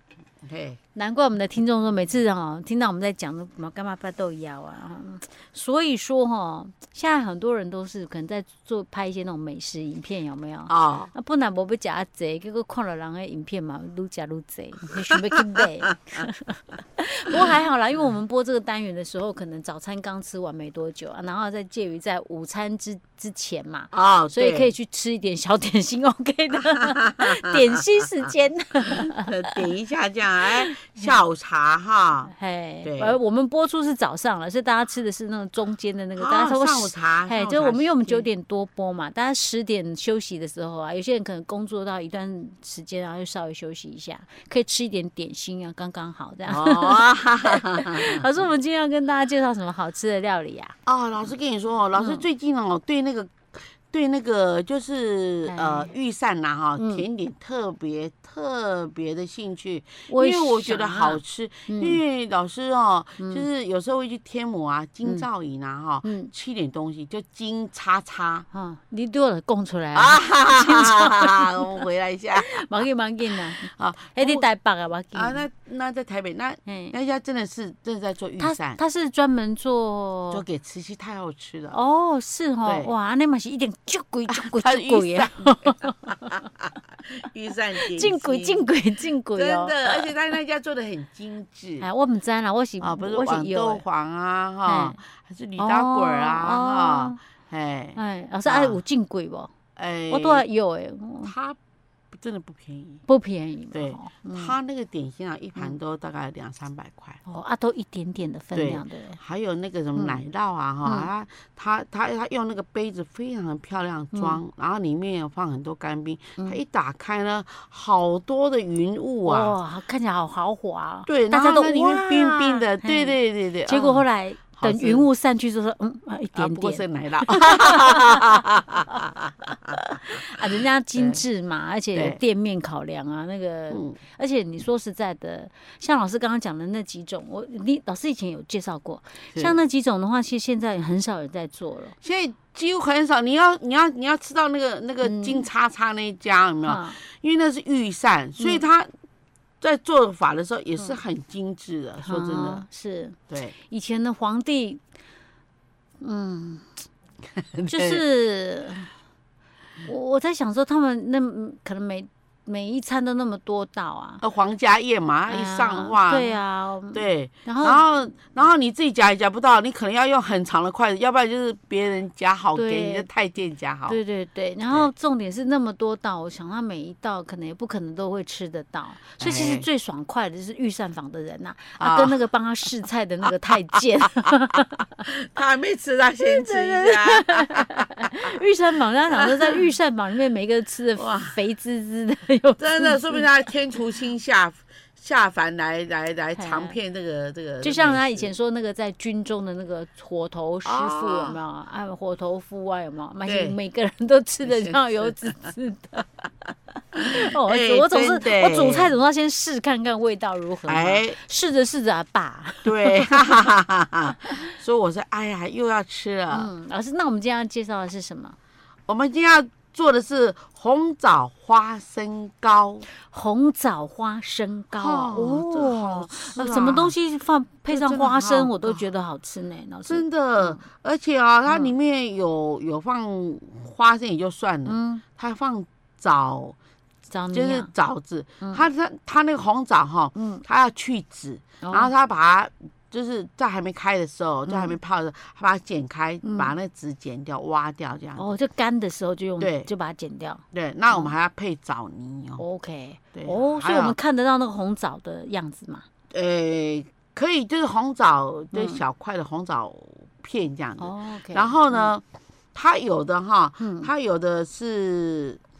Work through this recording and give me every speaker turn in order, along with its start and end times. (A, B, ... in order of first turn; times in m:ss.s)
0:00.4-0:00.8 A
0:00.9-0:29.7 B
0:10.7-0:11.1 A
0:15.9-0:16.2 A
0:23.9-0:24.7 A
0:26.7-0:27.6 A
0:28.8-0:32.3 A
0:30.4-0:31.2 B
0:32.3-0:50.8 B
0:32.8-0:33.2 A
0:36.2-0:38.3 A
0:46.5-0:48.2 A
0:50.8-1:08.4 A
0:51.9-0:52.2 B
0:55.5-0:55.9 B
0:56.8-0:57.0 B
1:00.1-1:02.0 B
1:03.2-1:03.4 B
1:06.0-1:06.3 B
1:08.5-1:11.7 B
1:09.9-1:12.6 A
1:12.3-1:15.4 B
1:13.6-1:14.4 A
1:15.1-1:18.8 A
1:16.6-1:16.9 B
1:18.4-1:20.4 B
1:20.3-1:21.8 A
1:21.7-1:26.4 B
1:22.6-1:22.9 A
1:24.3-1:26.5 A
1:27.1-1:28.6 A
1:27.8-1:30.1 B
1:29.4-1:31.8 A
1:31.8-1:33.8 B
1:32.8-1:38.8 A
1:34.6-1:35.0 B
1:35.6-1:37.2 B
1:38.0-1:39.5 B
1:39.8-1:40.4 A
1:40.1-1:41.3 B
1:41.2-1:41.6 A
1:42.1-1:43.0 A
1:43.1-1:44.5 B
1:43.7-1:47.2 A
1:47.2-1:49.2 B
1:48.5-1:59.5 A
1:54.1-1:54.4 B
1:59.2-2:08.2 B
2:01.0-2:05.0 A
2:06.4-2:09.8 A
2:09.8-2:22.0 B
2:22.0-2:28.9 A
2:25.0-2:25.4 B
2:26.6-2:27.0 B
2:29.6-2:32.6 A
2:32.0-2:34.8 B
2:33.3-2:33.5 A
2:36.0-2:36.8 B
2:37.4-2:38.0 A
2:37.7-2:38.9 B
2:39.8-2:44.2 B
2:44.2-2:46.4 A
2:45.3-2:47.8 B
2:46.9-2:54.0 A
2:52.5-2:53.1 B
2:53.9-3:05.0 B
2:59.2-2:59.6 A
3:01.8-3:02.2 A
3:05.0-3:08.3 A
3:06.2-3:13.2 B
3:11.0-3:11.4 A
3:12.6-3:18.3 A
3:16.4-3:16.8 B
3:17.6-3:26.1 B
3:20.6-3:21.4 A
3:23.2-3:23.6 A
3:24.4-3:25.1 A
3:26.9-3:28.9 A
3:27.1-3:33.2 B
3:30.7-3:31.2 A
3:32.6-3:36.5 A
3:36.3-3:38.4 B
3:38.9-3:42.8 A
3:43.1-3:50.6 B
3:44.8-3:46.9 A
3:47.7-3:48.8 A
3:49.8-3:56.6 A
3:51.5-3:51.7 B
3:54.6-3:55.0 B
3:57.1-3:57.7 B
3:57.3-4:08.3 A
4:00.1-4:00.4 B
4:01.6-4:01.9 B
4:04.5-4:04.7 B
4:06.2-4:06.5 B
4:08.2-4:11.1 B
4:09.4-4:09.7 A
4:10.5-4:12.4 A
4:12.4-4:15.8 B
4:13.1-4:14.0 A
4:16.1-4:22.0 A
4:18.5-4:18.8 B
4:20.8-4:21.9 B
4:22.5-4:25.4 A
4:23.6-4:23.9 B